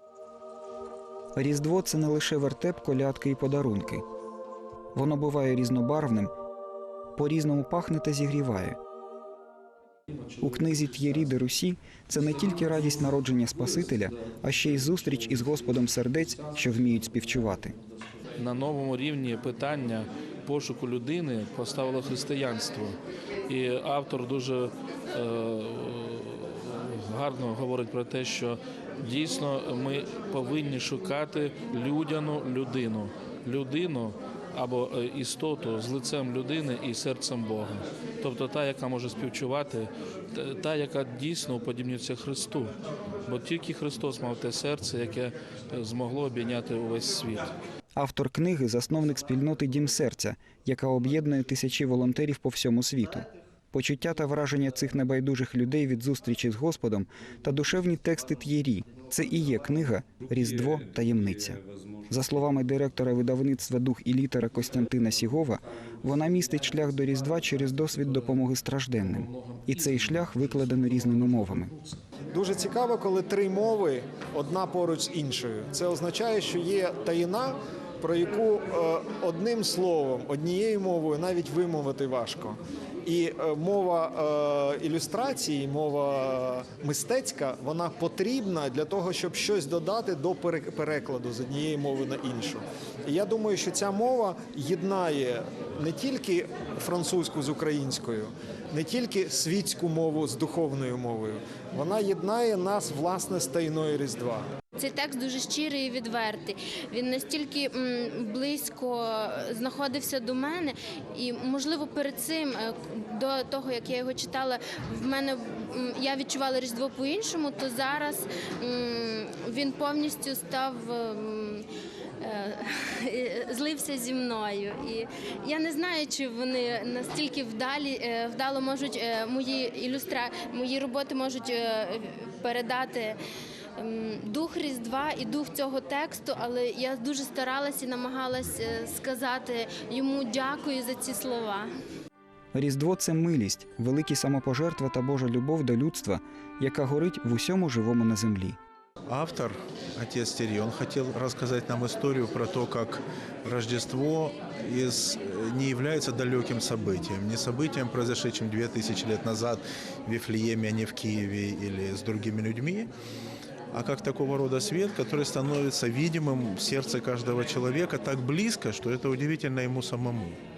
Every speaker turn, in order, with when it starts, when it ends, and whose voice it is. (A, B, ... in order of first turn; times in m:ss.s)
0:01.4-0:04.0 A
0:05.0-0:06.3 A
0:07.2-0:08.8 A
0:10.4-0:17.8 A
0:18.4-0:42.7 B
0:43.3-0:47.5 B
0:48.0-1:11.7 A
1:12.3-1:44.4 C
1:44.8-2:01.7 D
2:02.2-2:13.2 D
2:13.8-2:21.7 D
2:22.5-2:28.6 A
2:29.1-2:42.9 E
2:43.7-2:50.4 E